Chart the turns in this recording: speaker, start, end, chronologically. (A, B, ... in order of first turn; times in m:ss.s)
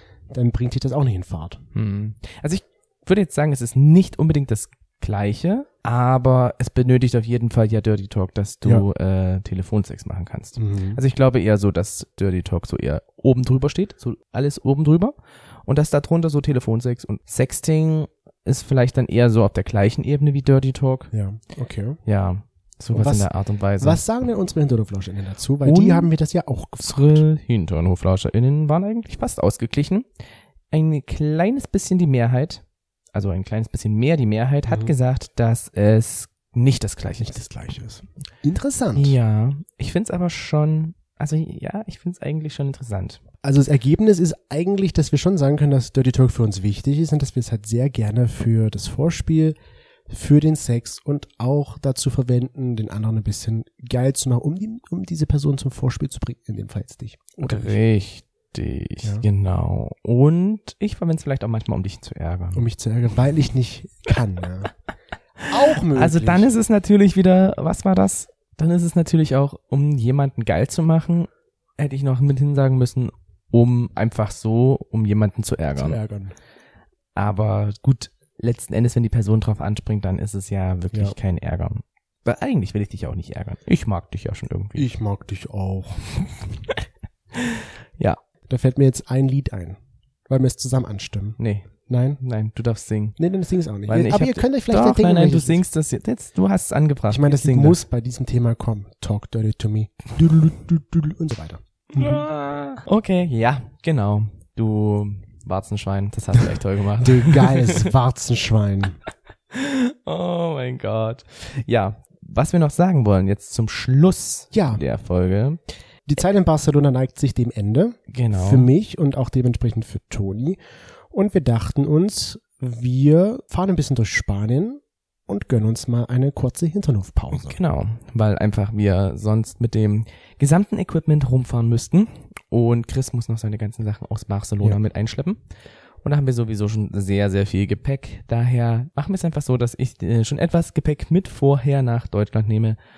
0:00.3-0:01.6 A
0:01.7-0:21.1 B
0:10.6-0:11.0 A
0:21.1-0:22.0 A
0:22.0-0:24.0 B
0:22.9-0:27.2 A
0:25.6-0:26.1 B
0:26.8-0:30.1 B
0:30.7-0:37.4 B
0:37.2-0:39.2 A
0:38.9-0:43.2 B
0:43.4-0:49.6 A
0:50.1-0:57.8 A
0:57.4-1:02.7 B
1:02.5-1:04.7 A
1:05.4-1:06.5 A
1:05.9-1:16.0 B
1:15.8-1:16.3 A
1:17.1-1:24.9 B
1:24.8-1:26.3 A
1:27.3-1:28.2 B
1:28.5-1:29.8 A
1:30.3-1:32.2 A
1:31.4-1:33.2 B
1:33.2-1:35.6 A
1:33.9-1:37.8 B
1:37.1-1:42.2 A
1:41.9-1:47.9 B
1:47.0-1:49.0 A
1:49.5-1:55.6 B
1:54.5-1:54.8 A
1:56.1-2:00.6 A
1:58.1-1:58.7 B
2:01.1-2:07.6 A
2:07.3-2:15.4 B
2:16.0-2:22.8 B